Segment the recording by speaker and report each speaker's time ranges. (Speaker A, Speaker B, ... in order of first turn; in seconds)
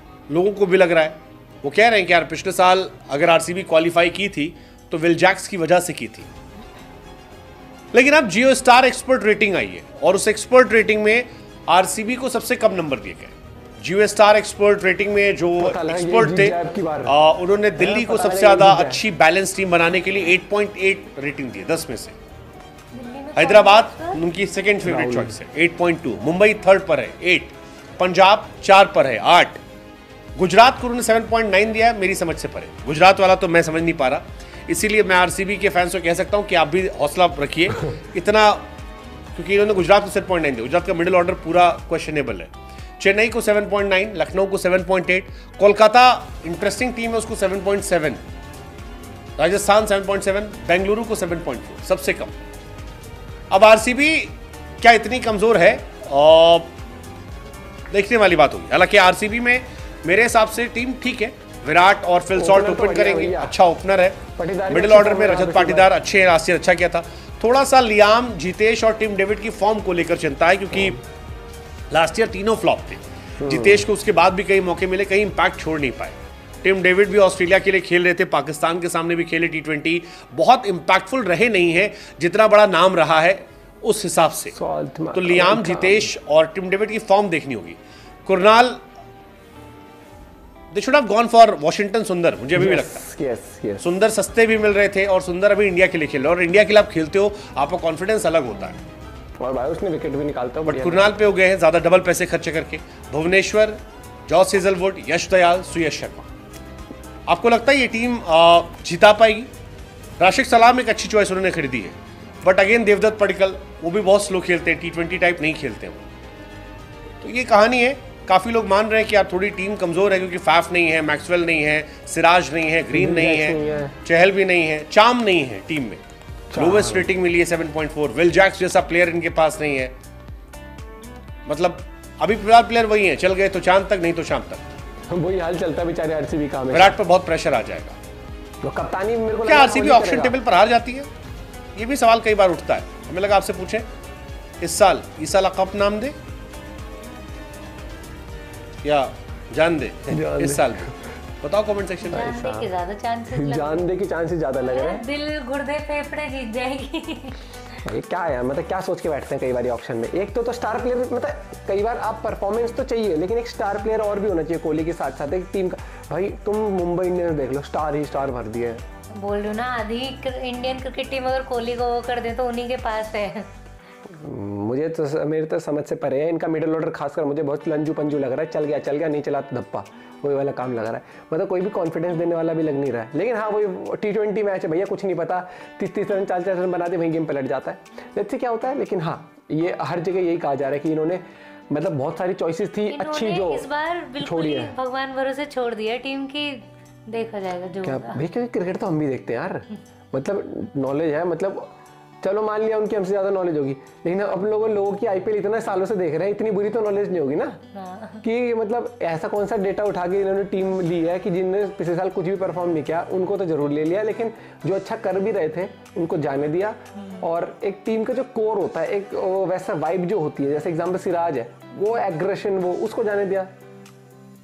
Speaker A: 0.3-6.3, 7.9-22.2, 23.4-29.6, 30.4-38.7, 39.4-48.2, 49.4-52.4, 53.5-56.7, 57.9-71.0, 71.9-84.5, 85.1-88.8, 90.7-93.0, 93.8-98.8, 100.7-106.3, 107.3-109.5, 110.2-116.0, 117.2-126.0, 126.5-129.9, 131.5-134.7, 136.7-138.0, 139.5-141.1, 141.8-143.9, 144.6-146.2, 148.8-150.9, 151.4-152.3
Speaker B: 15.6-17.2, 17.8-19.0, 24.8-25.4, 62.4-63.5, 64.4-65.9, 73.4-73.9, 84.5-86.1, 92.5-93.8, 99.4-101.1, 122.9-124.0, 126.5-127.1, 135.1-137.0, 138.6-140.4, 150.1-150.9, 152.1-152.7, 153.3-155.1, 157.8-168.8, 174.1-193.7, 194.2-194.7, 197.8-201.7, 202.2-207.6, 208.2-223.5
Speaker C: 22.9-24.2, 152.1-153.9, 154.6-157.4, 169.2-173.5, 192.9-198.2, 207.7-208.2